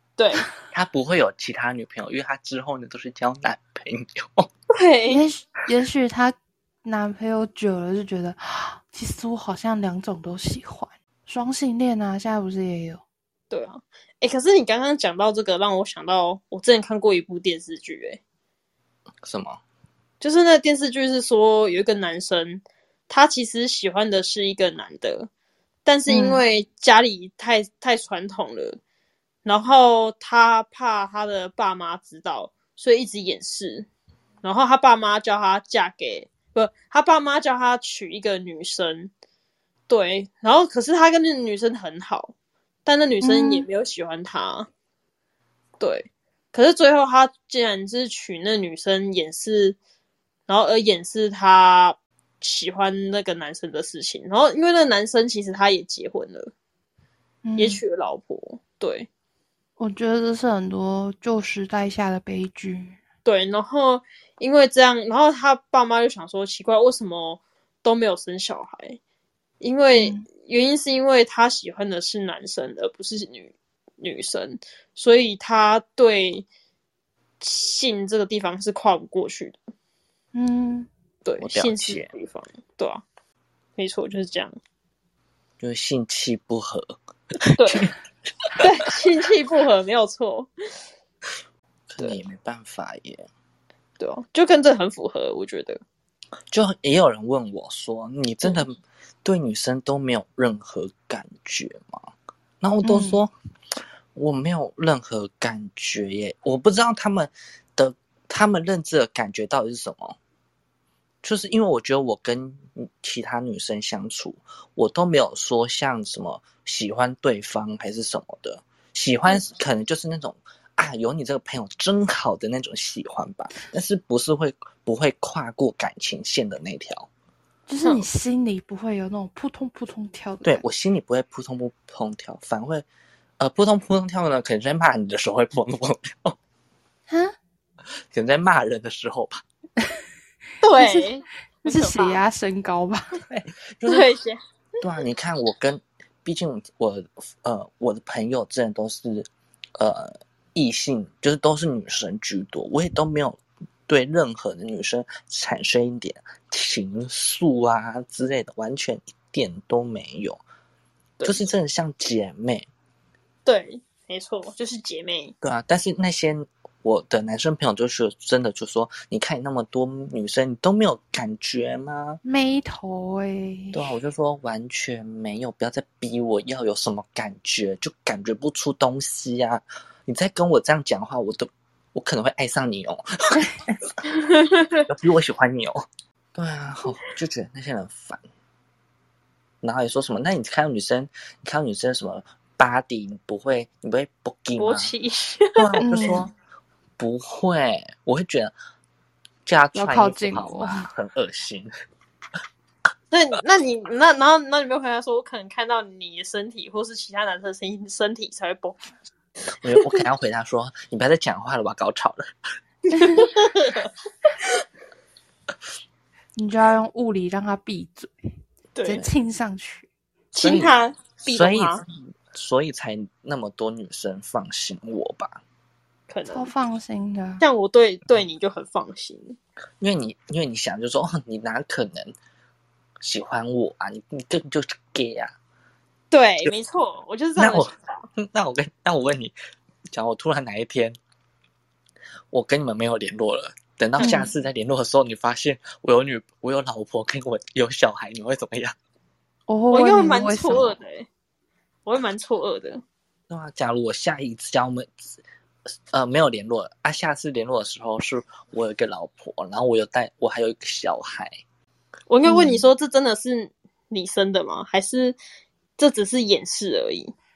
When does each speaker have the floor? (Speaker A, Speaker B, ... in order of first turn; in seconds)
Speaker A: 0.2-0.5, 4.7-5.2, 13.5-18.2, 20.2-25.3, 25.9-28.8, 29.4-33.9, 34.4-39.1, 39.9-42.3, 42.9-44.7, 45.8-49.8, 50.5-56.5, 57.6-59.1, 63.2-69.0, 69.6-76.5, 77.4-79.6, 81.2-83.0, 83.8-84.5, 87.6-87.9, 88.6-90.5, 94.0-95.8, 140.6-142.2, 143.9-144.4, 163.5-165.3, 194.6-195.8, 203.1-208.9, 209.7-210.0, 212.9-214.5, 218.8-219.1, 220.3-221.8, 226.1-226.5, 227.4-229.4, 236.1-238.0, 249.7-251.1, 251.9-252.8, 262.1-265.2, 265.8-267.1
Speaker B: 0.7-4.5, 19.2-19.6, 81.4-82.1, 85.6-87.9, 91.9-93.3, 96.5-102.0, 102.6-103.3, 104.2-110.2, 111.2-127.1, 130.4-132.9, 133.4-136.4, 138.1-139.4, 143.3-144.1, 144.8-160.4, 161.2-162.7, 165.4-172.2, 173.7-184.0, 184.8-185.8, 186.3-188.2, 189.6-194.9, 195.6-196.3, 197.0-198.5, 199.5-201.7, 209.6-212.3, 220.4-220.7, 221.2-225.4, 229.8-232.2, 233.0-235.3, 237.4-239.3, 239.9-241.0, 242.3-248.8, 253.3-255.2, 255.9-261.3
Speaker C: 5.1-13.0, 26.1-26.4, 43.2-43.7, 57.4-57.8, 59.8-63.0, 70.0-70.2, 80.3-80.9, 102.8-103.2, 127.7-130.6, 137.1-137.4, 140.8-141.1, 141.7-143.2, 172.2-173.9, 195.8-196.3, 199.8-200.9, 216.4-218.3, 218.9-219.9, 226.3-227.4, 244.0-244.3, 249.5-250.8, 262.2-262.7